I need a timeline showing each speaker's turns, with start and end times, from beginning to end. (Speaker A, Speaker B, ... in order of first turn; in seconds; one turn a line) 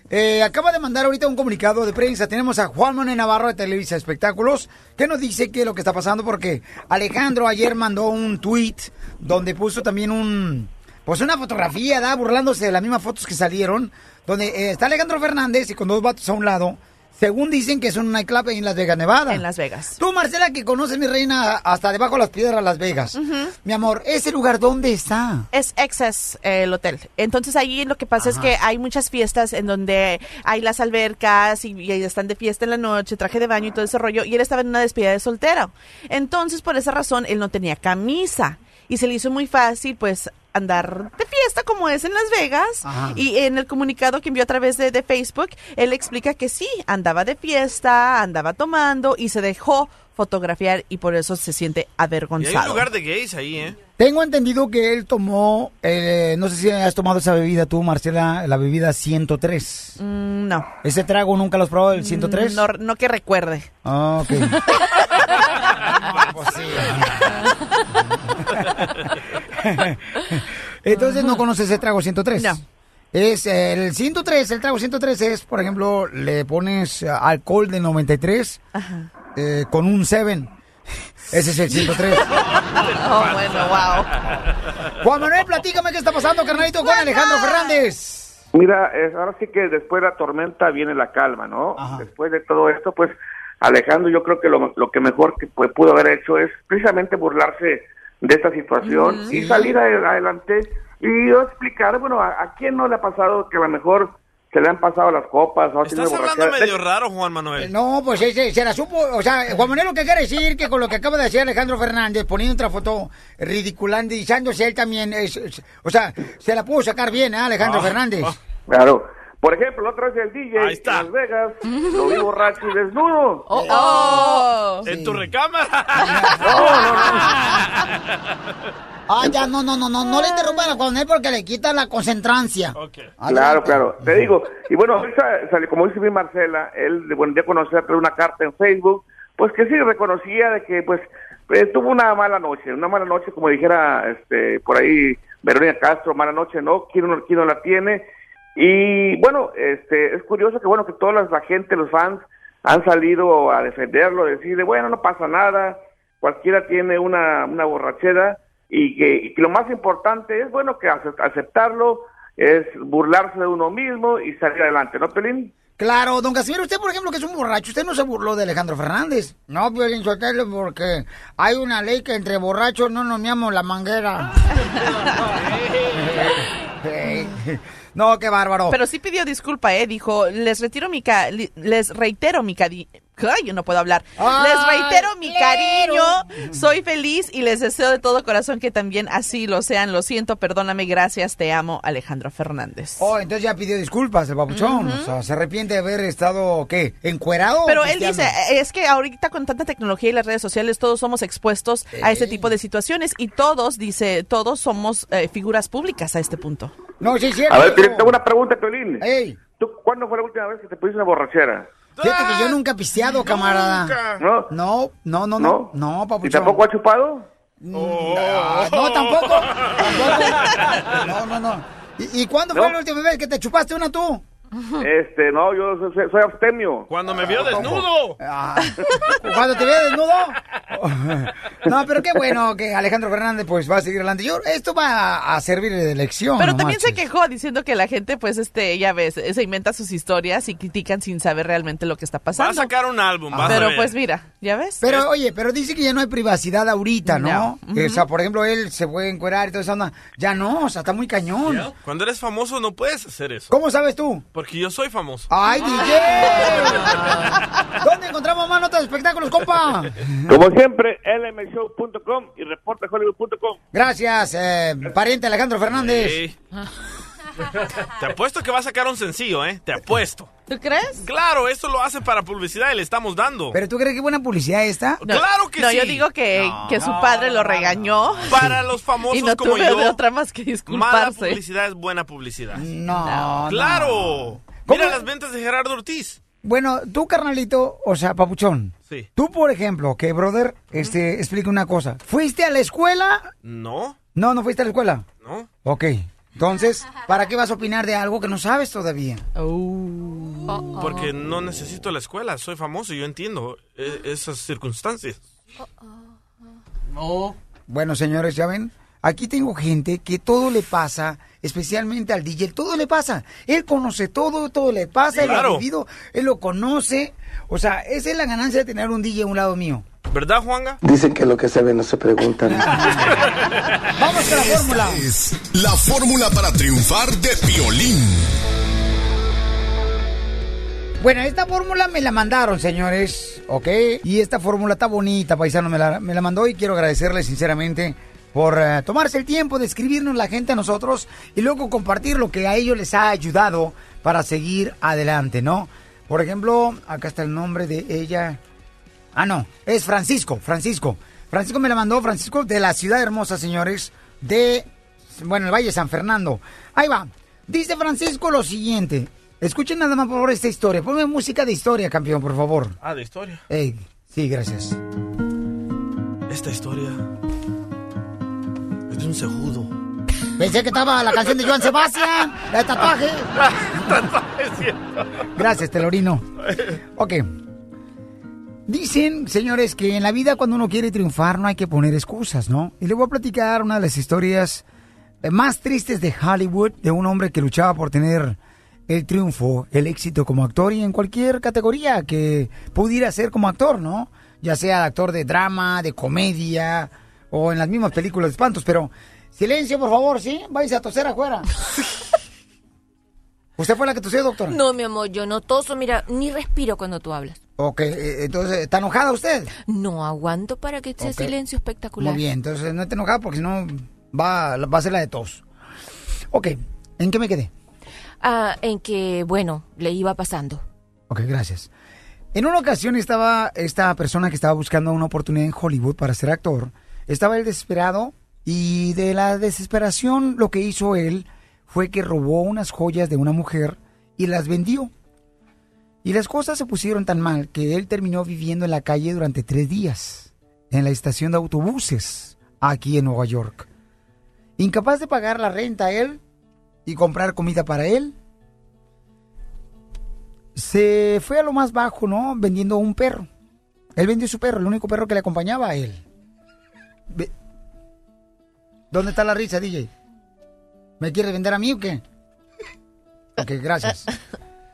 Speaker A: 0.1-19.4
Speaker B: 19.3-20.0
Speaker A: 20.0-25.5
Speaker B: 23.1-23.5
Speaker B: 25.5-52.9
Speaker A: 28.2-28.5
Speaker A: 42.8-43.2
Speaker C: 52.4-53.8
Speaker A: 54.0-60.0
Speaker B: 60.0-60.7
Speaker A: 60.8-62.6
Speaker B: 61.9-63.7
Speaker A: 63.8-64.6
Speaker A: 66.0-67.3
Speaker C: 66.1-67.2
Speaker A: 68.1-68.6
Speaker A: 69.6-72.6
Speaker B: 71.0-71.4
Speaker A: 73.1-78.6
Speaker B: 78.7-79.1
Speaker A: 79.3-80.5
Speaker A: 81.3-82.2
Speaker B: 81.7-84.1
Speaker C: 82.8-84.0
Speaker A: 85.0-88.4
Speaker D: 88.5-106.7
Speaker A: 91.8-92.0
Speaker A: 99.3-99.7
Speaker C: 105.8-107.7
Speaker A: 107.6-118.3
Speaker C: 117.6-118.3
Speaker D: 118.7-123.9
Speaker C: 120.6-121.1
Speaker E: 121.7-122.2
Speaker E: 123.5-124.4
Speaker B: 123.6-124.8
Speaker C: 124.8-128.0
Speaker A: 124.8-125.3
Speaker A: 126.0-127.1
Speaker D: 126.5-127.3
Speaker A: 129.1-134.3
Speaker C: 132.7-133.1
Speaker D: 133.3-148.0
Speaker D: 148.6-165.5
Speaker A: 165.8-174.4
Speaker C: 175.4-175.9
Speaker A: 175.9-178.8
Speaker B: 178.7-193.1
Speaker A: 184.2-186.6
Speaker A: 193.0-198.3
Speaker B: 194.5-195.1
Speaker B: 197.7-206.7
Speaker A: 201.9-202.5
Speaker A: 207.0-208.2
Speaker D: 207.5-211.7
Speaker A: 209.0-209.4
Speaker C: 212.0-212.6
Speaker A: 212.0-216.6
Speaker C: 213.1-214.2
Speaker D: 214.2-214.5
Speaker D: 215.4-215.7
Speaker D: 216.2-217.3
Speaker A: 217.6-224.2
Speaker C: 217.7-220.9
Speaker D: 224.8-227.7
Speaker C: 226.9-228.2
Speaker A: 227.2-237.0
Speaker B: 236.4-242.7
Speaker C: 242.3-243.9
Speaker A: 243.3-243.7
Speaker B: 243.4-244.8
Speaker A: 244.8-251.7
Speaker B: 247.1-248.0
Speaker C: 251.6-253.5
Speaker A: 253.5-254.2
Speaker C: 254.3-255.3
Speaker A: 255.3-256.9
Speaker A: 257.8-260.3
Speaker D: 260.3-263.6
Speaker A: 263.7-266.2
Speaker C: 265.7-266.4
Speaker C: 267.9-270.3
Speaker B: 270.5-271.1
Speaker C: 271.0-273.6
Speaker A: 273.5-275.0
Speaker C: 275.0-276.1
Speaker B: 275.0-278.5
Speaker C: 278.2-280.0
Speaker A: 278.3-278.6
Speaker B: 279.1-281.4
Speaker C: 280.7-282.6
Speaker A: 282.5-285.0
Speaker B: 283.0-283.4
Speaker C: 283.5-286.2
Speaker A: 286.4-293.3
Speaker C: 293.4-294.0
Speaker A: 294.1-295.1
Speaker C: 295.2-295.5
Speaker A: 295.6-299.2
Speaker E: 300.5-301.1
Speaker C: 300.8-305.2
Speaker A: 307.7-319.9
Speaker C: 315.1-315.6
Speaker C: 320.1-320.8
Speaker F: 320.8-322.8
Speaker A: 322.5-323.1
Speaker A: 323.9-325.0
Speaker G: 324.4-328.3
Speaker A: 331.0-348.4
Speaker A: 349.1-362.8
Speaker C: 362.8-363.4
Speaker A: 363.5-364.8
Speaker C: 366.3-367.0
Speaker C: 368.9-369.7
Speaker A: 370.4-373.3
Speaker C: 373.4-375.2
Speaker A: 375.4-376.3
Speaker A: 376.9-377.3
Speaker A: 378.7-384.6
Speaker A: 385.2-401.5
Speaker A: 403.6-404.6
Speaker E: 404.5-407.4
Speaker A: 407.6-409.5
Speaker E: 409.7-412.2
Speaker A: 411.0-411.3
Speaker A: 412.0-415.4
Speaker A: 416.3-417.5
Speaker E: 418.2-420.6
Speaker A: 421.1-421.7
Speaker A: 422.3-434.9
Speaker A: 436.0-443.7
Speaker A: 444.6-446.2
Speaker A: 446.8-448.1
Speaker A: 450.5-453.3
Speaker A: 453.9-456.0
Speaker A: 458.9-459.9
Speaker A: 461.0-462.0
Speaker A: 463.4-464.1